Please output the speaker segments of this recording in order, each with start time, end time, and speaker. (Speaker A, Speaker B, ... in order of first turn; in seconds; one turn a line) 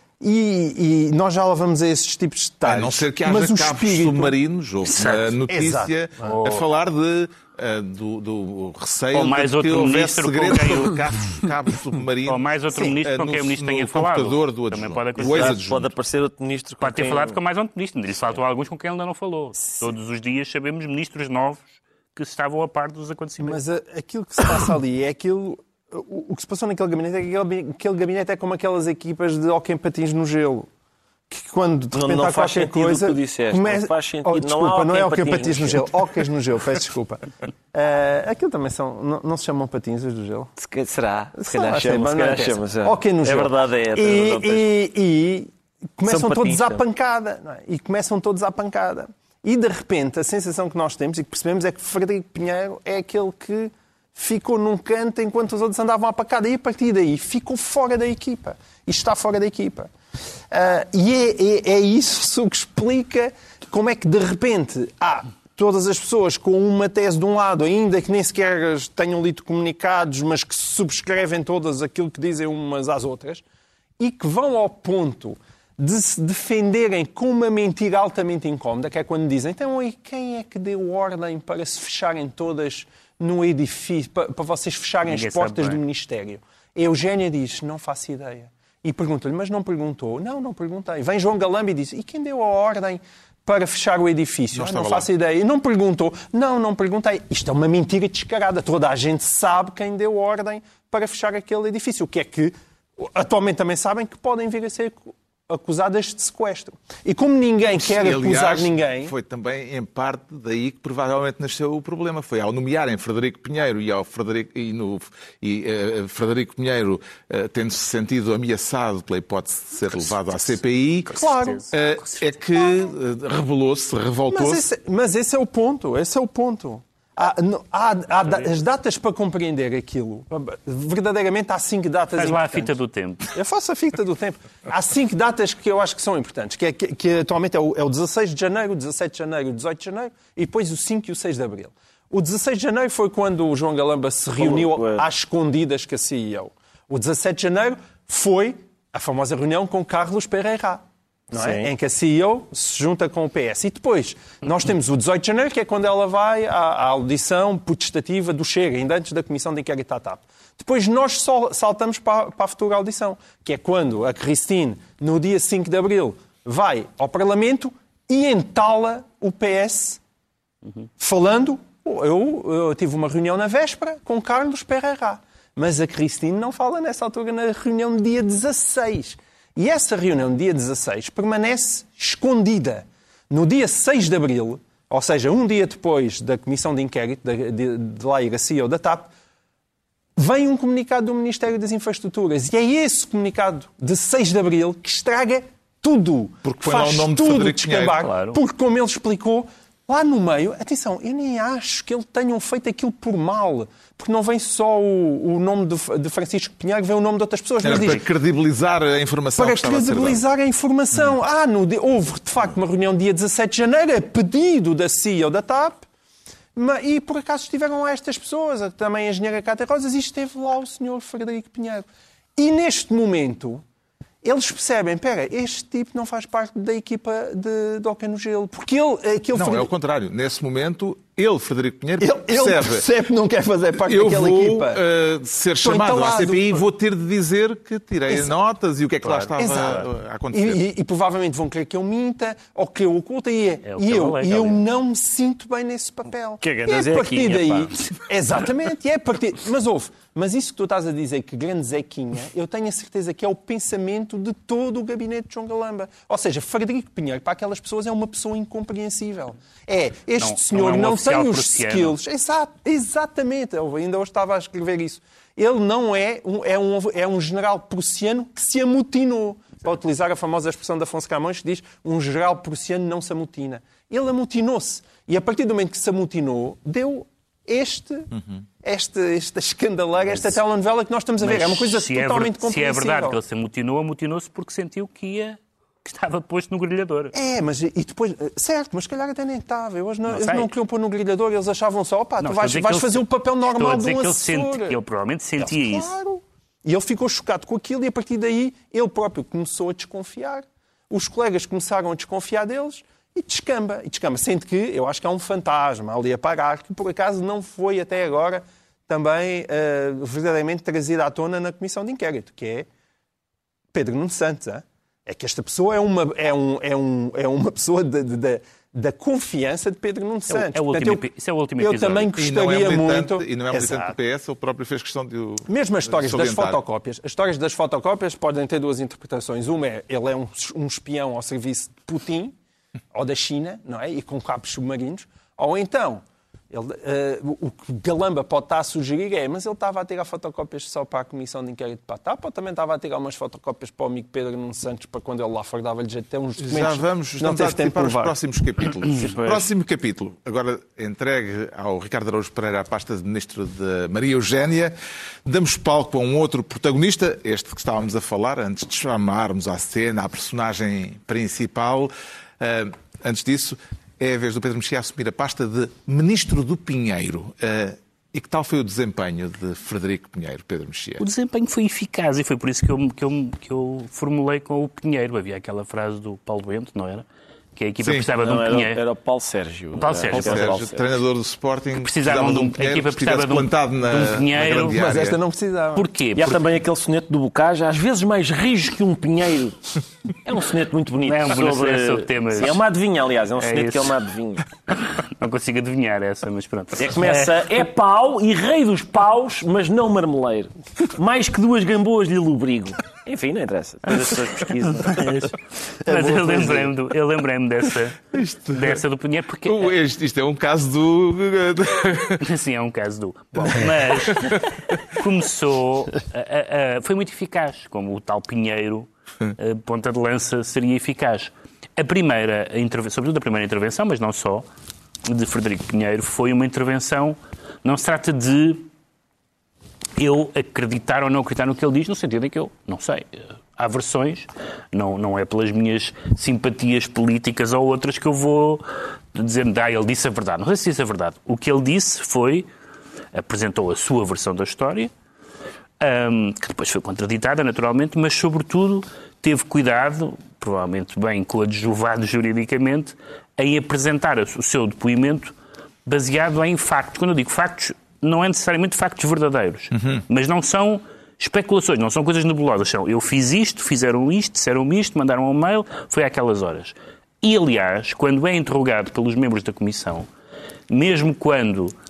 Speaker A: 0.2-4.3
Speaker B: 2.6-15.9
Speaker A: 4.9-6.3
Speaker C: 6.2-6.7
Speaker C: 9.1-11.0
Speaker C: 12.3-15.6
Speaker D: 15.2-17.4
Speaker C: 16.8-23.6
Speaker A: 19.6-19.9
Speaker A: 23.4-30.7
Speaker A: 31.3-40.5
Speaker D: 31.9-35.9
Speaker D: 40.6-44.7
Speaker A: 41.4-59.9
Speaker D: 46.1-46.8
Speaker A: 60.5-73.4
Speaker A: 74.0-109.1
Speaker C: 85.0-85.8
Speaker B: 94.5-95.1
Speaker B: 107.8-124.6
Speaker A: 121.1-121.7
Speaker C: 121.1-122.3
Speaker A: 124.3-132.7
Speaker C: 132.2-133.3
Speaker A: 133.3-170.0
Speaker D: 144.4-145.1
Speaker D: 151.3-151.7
Speaker A: 171.0-189.1
Speaker A: 190.2-208.0
Speaker B: 196.4-198.1
Speaker C: 197.9-198.4
Speaker B: 207.6-210.2
Speaker A: 209.4-215.8
Speaker A: 216.6-223.6
Speaker A: 224.2-229.7
Speaker B: 229.3-232.9
Speaker A: 232.0-234.8
Speaker B: 233.9-240.6
Speaker A: 235.6-236.6
Speaker C: 239.2-239.8
Speaker A: 239.4-278.1
Speaker C: 243.7-244.6
Speaker D: 246.4-247.7
Speaker C: 260.2-262.0
Speaker B: 278.1-278.4
Speaker A: 278.6-283.2
Speaker C: 280.1-280.4
Speaker C: 281.2-287.1
Speaker A: 287.1-294.8
Speaker C: 290.1-290.5
Speaker C: 292.2-295.9
Speaker A: 295.4-312.7
Speaker A: 313.7-321.1
Speaker C: 320.3-322.1
Speaker A: 321.6-324.0
Speaker B: 322.2-326.6
Speaker A: 325.5-332.4
Speaker A: 332.9-348.1
Speaker B: 346.4-371.0
Speaker D: 349.2-349.5
Speaker C: 371.0-378.8
Speaker B: 377.8-378.1
Speaker D: 378.2-380.8
Speaker C: 379.7-380.5
Speaker B: 380.1-385.2
Speaker C: 381.8-384.9
Speaker A: 384.7-385.9
Speaker C: 385.8-386.4
Speaker D: 386.1-394.5
Speaker C: 391.1-392.6
Speaker C: 393.4-394.0
Speaker C: 394.7-397.5
Speaker D: 396.8-405.3
Speaker C: 404.4-409.7
Speaker A: 405.9-406.6
Speaker B: 408.1-408.8
Speaker B: 409.4-412.3
Speaker C: 412.2-424.4
Speaker B: 413.9-414.4
Speaker C: 425.1-428.6
Speaker C: 430.0-442.5
Speaker C: 443.1-444.9
Speaker C: 445.8-455.4
Speaker C: 455.9-470.1
Speaker B: 459.7-460.0
Speaker C: 470.7-471.7